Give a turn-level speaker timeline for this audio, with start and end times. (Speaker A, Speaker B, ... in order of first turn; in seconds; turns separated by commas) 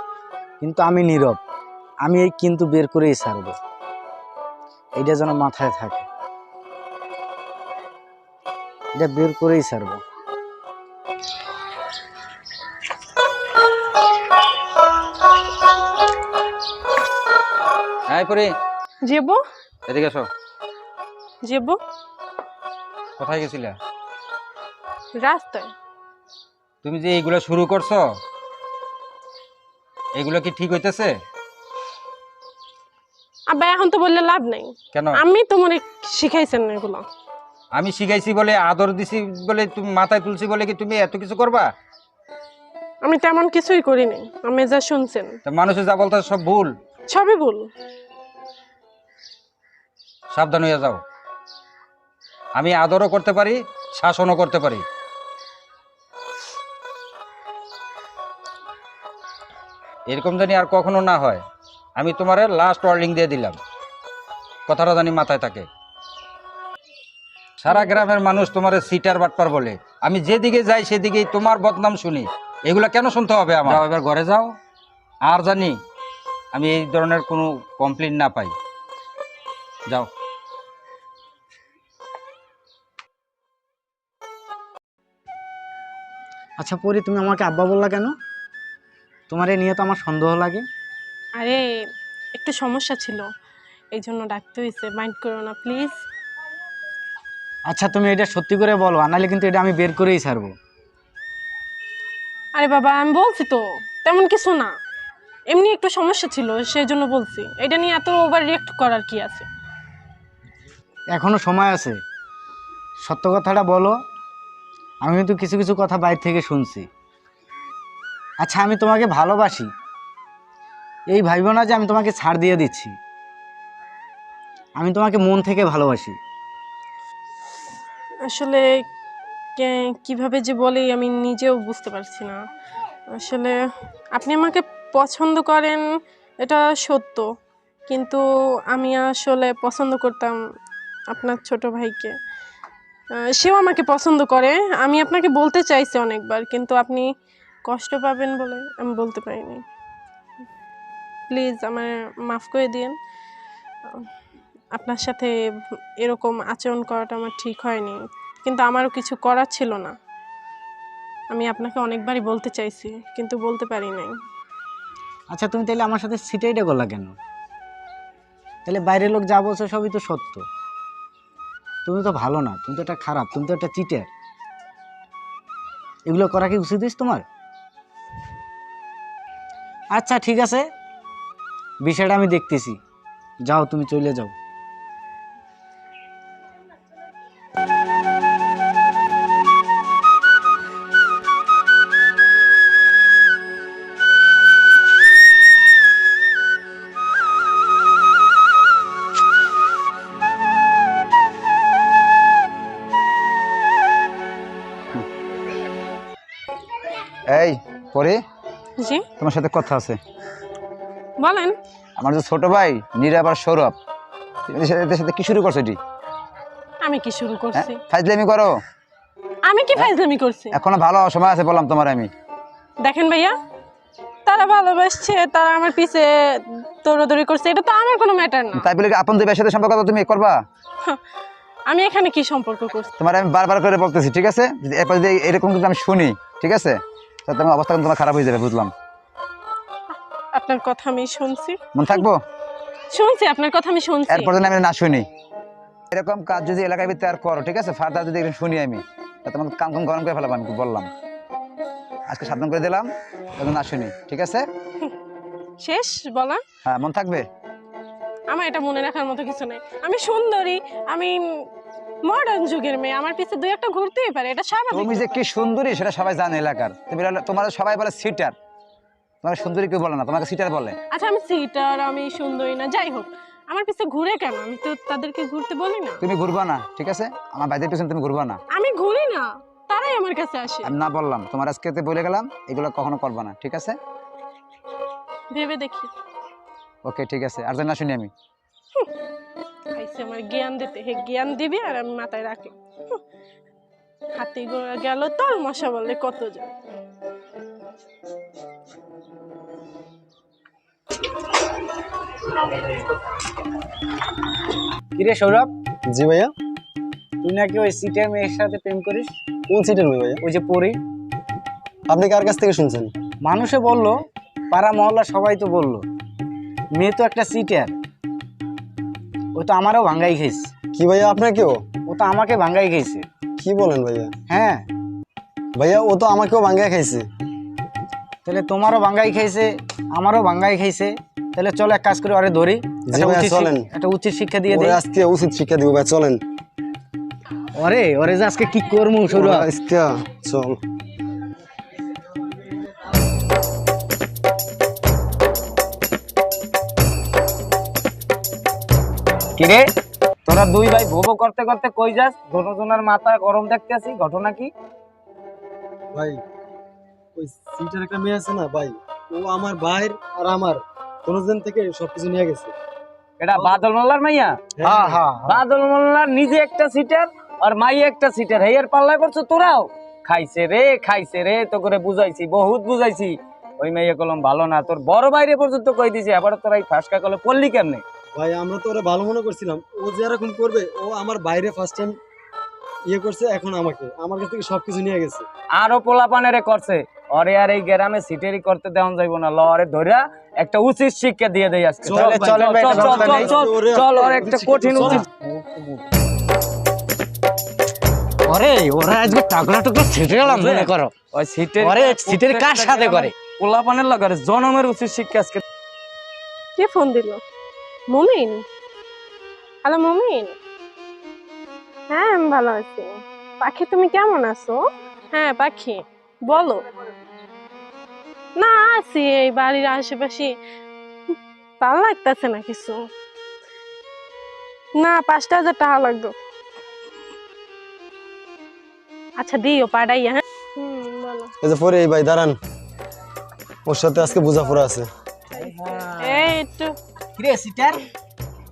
Speaker A: 0.6-1.4, Speaker A: 2.0-3.6, Speaker A: 5.0-6.1, Speaker A: 9.0-10.0, Speaker B: 18.1-18.5, Speaker C: 19.1-19.4, Speaker B: 19.9-20.3, Speaker C: 21.4-21.8, Speaker B: 23.2-23.8, Speaker C: 25.2-25.7, Speaker B: 26.8-28.0, Speaker B: 30.2-31.1, Speaker C: 33.5-37.0, Speaker B: 34.9-35.2, Speaker B: 37.7-41.7, Speaker C: 43.0-45.4, Speaker B: 45.5-46.7, Speaker C: 47.1-47.7, Speaker B: 50.3-51.0, Speaker B: 52.5-54.8, Speaker B: 60.1-61.4, Speaker B: 62.0-63.6, Speaker B: 64.7-65.7, Speaker B: 67.6-74.5, Speaker B: 75.2-75.8, Speaker B: 76.5-78.5, Speaker A: 86.6-88.1, Speaker A: 89.3-90.7, Speaker C: 91.4-91.7, Speaker C: 92.3-93.3, Speaker C: 93.9-96.0, Speaker A: 97.7-100.5, Speaker C: 102.5-104.7, Speaker C: 105.5-109.5, Speaker A: 111.1-112.0, Speaker A: 113.0-114.0, Speaker A: 115.0-116.9, Speaker A: 118.4-119.7, Speaker A: 121.1-123.0, Speaker A: 124.8-126.2, Speaker C: 128.3-128.8, Speaker C: 129.6-132.4, Speaker C: 133.1-133.6, Speaker C: 134.1-135.8, Speaker C: 136.4-137.3, Speaker C: 137.9-140.4, Speaker C: 141.1-142.1, Speaker C: 143.2-147.1, Speaker C: 147.7-149.6, Speaker C: 151.3-153.0, Speaker C: 154.7-155.3, Speaker C: 156.0-159.9, Speaker C: 161.3-164.1, Speaker A: 165.3-167.2, Speaker A: 168.6-170.4, Speaker A: 171.8-174.1, Speaker A: 176.1-177.2, Speaker A: 179.9-180.7, Speaker A: 181.8-182.8, Speaker A: 183.4-184.3, Speaker D: 207.3-208.2, Speaker C: 208.8-209.1, Speaker D: 209.2-210.0, Speaker C: 211.2-211.6, Speaker D: 212.0-213.7, Speaker D: 214.5-215.8, Speaker C: 216.8-217.8, Speaker D: 217.5-218.5, Speaker C: 219.5-220.6, Speaker D: 220.5-222.1, Speaker C: 222.8-223.3, Speaker C: 224.2-228.7, Speaker D: 228.5-230.3, Speaker C: 231.7-232.9, Speaker D: 233.0-238.7, Speaker C: 240.3-242.0, Speaker D: 241.7-242.2, Speaker C: 242.9-244.4, Speaker D: 244.1-245.1, Speaker D: 245.9-250.9, Speaker D: 252.1-254.4, Speaker C: 255.6-256.4, Speaker D: 256.6-257.2, Speaker C: 258.3-261.5, Speaker C: 262.0-265.1, Speaker D: 264.7-268.3, Speaker D: 269.2-270.8, Speaker C: 270.9-276.0, Speaker D: 276.0-278.4, Speaker C: 278.5-280.7, Speaker D: 280.6-283.8, Speaker C: 285.3-285.9, Speaker D: 286.8-288.1, Speaker C: 289.7-293.0, Speaker C: 294.1-296.5, Speaker A: 304.9-305.5, Speaker E: 305.9-306.3, Speaker A: 307.2-309.1, Speaker E: 309.5-310.2, Speaker A: 310.2-310.8, Speaker E: 311.9-312.9, Speaker A: 313.2-314.0, Speaker A: 314.5-315.8, Speaker A: 316.7-317.8, Speaker A: 319.3-320.5, Speaker E: 320.7-321.6, Speaker A: 321.9-323.1, Speaker E: 323.4-324.1, Speaker A: 324.3-324.6, Speaker E: 325.6-327.1, Speaker A: 328.2-334.8, Speaker E: 332.9-333.6, Speaker E: 334.5-336.2, Speaker A: 337.6-339.5, Speaker E: 339.1-340.6, Speaker F: 349.4-349.6, Speaker F: 350.3-354.5, Speaker E: 355.9-356.2, Speaker E: 357.1-362.5, Speaker F: 363.2-364.4, Speaker E: 364.6-365.1, Speaker A: 364.6-365.4, Speaker F: 365.2-377.8, Speaker E: 378.1-382.0, Speaker E: 382.9-385.2, Speaker F: 385.6-395.1, Speaker A: 391.9-393.4, Speaker E: 391.9-395.0, Speaker A: 394.8-395.3, Speaker A: 398.3-400.9, Speaker F: 400.2-405.4, Speaker A: 401.6-403.1, Speaker C: 406.6-407.2, Speaker C: 407.9-408.4, Speaker C: 409.6-410.4, Speaker C: 411.9-416.6, Speaker C: 418.4-420.3, Speaker C: 421.1-422.8, Speaker C: 424.8-426.1, Speaker C: 429.2-431.3, Speaker E: 431.4-432.4, Speaker E: 433.6-434.9, Speaker A: 435.4-436.3, Speaker C: 435.9-436.8, Speaker A: 437.2-437.8